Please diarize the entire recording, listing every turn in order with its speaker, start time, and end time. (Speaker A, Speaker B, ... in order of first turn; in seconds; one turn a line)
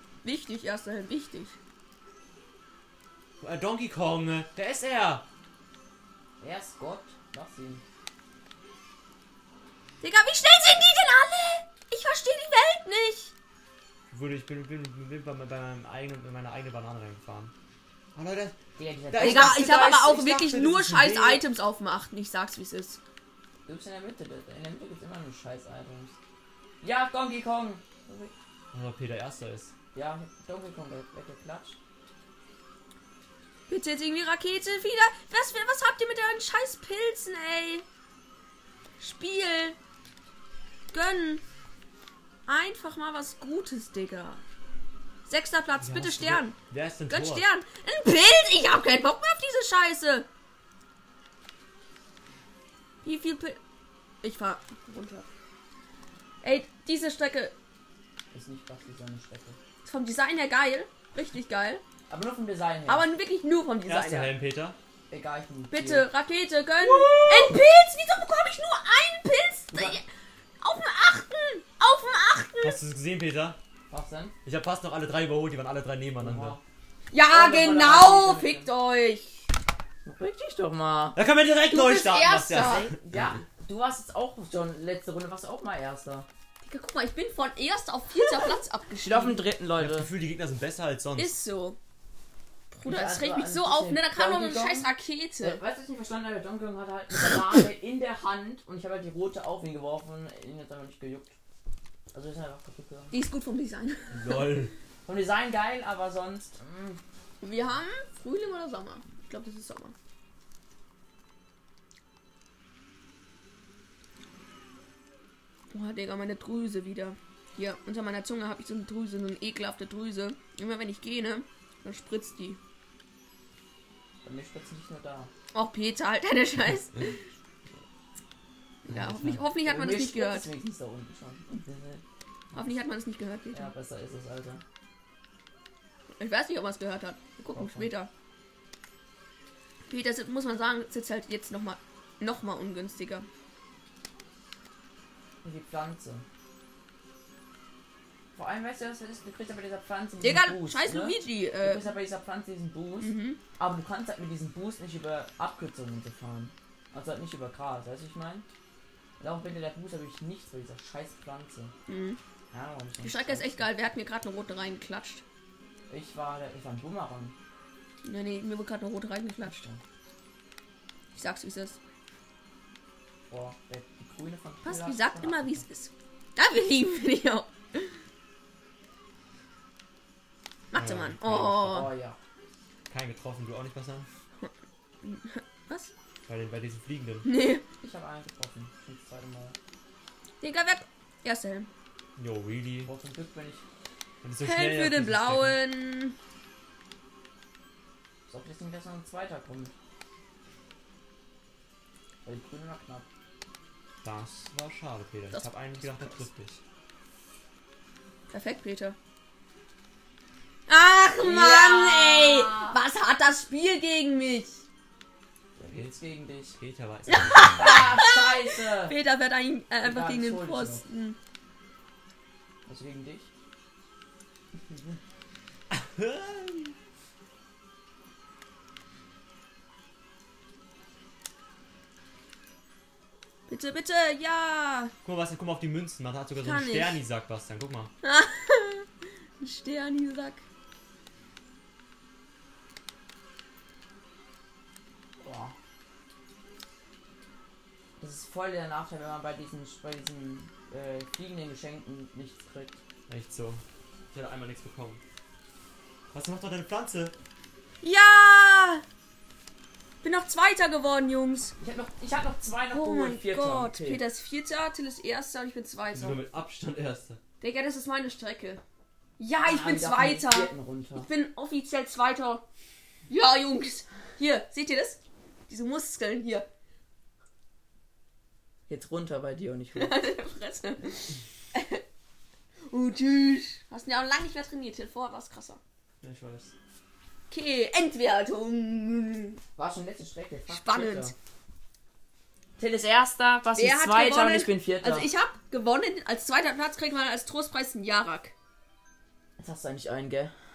Speaker A: 0.2-1.6
Speaker B: 3.4-5.3
Speaker C: 6.4-7.8
Speaker A: 10.0-13.3
Speaker B: 14.1-17.5
Speaker B: 18.1-18.6
Speaker C: 18.8-19.7
Speaker B: 19.1-21.4
Speaker A: 19.2-23.0
Speaker C: 23.7-26.2
Speaker C: 26.8-28.3
Speaker B: 28.7-29.7
Speaker C: 29.9-31.8
Speaker A: 33.7-37.9
Speaker A: 39.0-39.8
Speaker A: 40.9-41.4
Speaker A: 42.5-44.4
Speaker A: 45.3-46.6
Speaker B: 45.8-47.5
Speaker A: 47.1-50.3
Speaker A: 53.0-53.6
Speaker A: 54.2-55.3
Speaker A: 56.4-57.5
Speaker C: 58.3-59.6
Speaker A: 59.8-61.8
Speaker C: 62.1-63.1
Speaker A: 62.9-64.4
Speaker B: 63.9-64.8
Speaker C: 65.1-66.1
Speaker A: 65.7-70.0
Speaker C: 66.8-67.6
Speaker C: 69.7-70.0
Speaker A: 70.6-72.8
Speaker B: 72.6-73.6
Speaker C: 73.9-74.4
Speaker B: 74.5-76.6
Speaker C: 76.2-76.6
Speaker A: 77.1-79.5
Speaker C: 77.3-78.7
Speaker C: 80.0-81.2
Speaker B: 81.2-83.0
Speaker A: 81.7-82.9
Speaker C: 82.5-86.3
Speaker A: 86.6-89.4
Speaker C: 89.0-90.1
Speaker B: 89.8-91.3
Speaker A: 91.2-91.8
Speaker A: 92.7-95.6
Speaker C: 92.8-94.9
Speaker C: 95.4-101.3
Speaker C: 102.1-103.2
Speaker A: 103.1-104.5
Speaker B: 104.1-104.7
Speaker C: 105.0-107.0
Speaker A: 107.4-109.9
Speaker A: 115.7-122.6
Speaker C: 124.2-125.3
Speaker A: 125.5-127.2
Speaker A: 128.8-130.5
Speaker B: 128.9-129.4
Speaker C: 129.6-132.0
Speaker A: 132.5-133.7
Speaker C: 133.5-134.6
Speaker A: 136.2-138.1
Speaker C: 137.5-137.9
Speaker A: 139.9-143.3
Speaker C: 145.4-146.2
Speaker C: 148.3-158.5
Speaker A: 150.2-151.9
Speaker A: 153.0-153.4
Speaker C: 159.2-161.7
Speaker A: 161.9-162.2
Speaker C: 162.5-163.7
Speaker A: 163.0-165.2
Speaker C: 165.9-167.4
Speaker A: 168.0-169.7
Speaker C: 169.4-169.8
Speaker A: 171.1-171.8
Speaker C: 173.3-175.6
Speaker A: 174.6-177.9
Speaker A: 180.7-181.9
Speaker B: 180.7-181.8
Speaker C: 181.6-182.2
Speaker B: 182.9-184.1
Speaker A: 185.0-185.9
Speaker B: 186.3-187.3
Speaker A: 187.3-187.6
Speaker C: 187.8-189.6
Speaker A: 190.4-191.7
Speaker B: 192.2-192.9
Speaker C: 192.8-193.6
Speaker B: 194.2-195.6
Speaker A: 194.4-196.2
Speaker C: 198.3-199.7
Speaker C: 202.2-203.1
Speaker B: 204.0-206.6
Speaker A: 205.3-206.2
Speaker A: 208.3-209.0
Speaker A: 210.7-214.6
Speaker C: 211.2-212.8
Speaker C: 215.6-216.6
Speaker B: 215.7-215.9
Speaker B: 216.6-217.7
Speaker A: 217.1-221.2
Speaker C: 217.5-219.0
Speaker C: 219.8-220.8
Speaker C: 222.7-223.3
Speaker C: 224.7-225.0
Speaker B: 225.7-226.7
Speaker A: 233.5-234.9
Speaker B: 235.0-237.9
Speaker A: 236.4-237.0
Speaker A: 238.0-238.9
Speaker A: 239.4-240.4
Speaker C: 245.2-245.6
Speaker C: 248.0-252.8
Speaker B: 253.1-255.0
Speaker B: 256.1-257.1
Speaker A: 257.8-258.8
Speaker A: 260.0-261.6
Speaker C: 261.6-264.0
Speaker A: 262.7-266.2
Speaker B: 265.9-267.2
Speaker A: 267.4-268.6
Speaker A: 269.2-272.4
Speaker C: 269.4-271.1
Speaker A: 273.1-276.5
Speaker C: 278.7-280.0
Speaker A: 279.8-281.8
Speaker A: 282.7-285.6
Speaker B: 286.0-286.5
Speaker A: 287.3-289.4
Speaker C: 289.6-291.1
Speaker A: 290.5-291.1
Speaker C: 292.6-295.1
Speaker A: 293.6-298.3
Speaker C: 299.4-300.3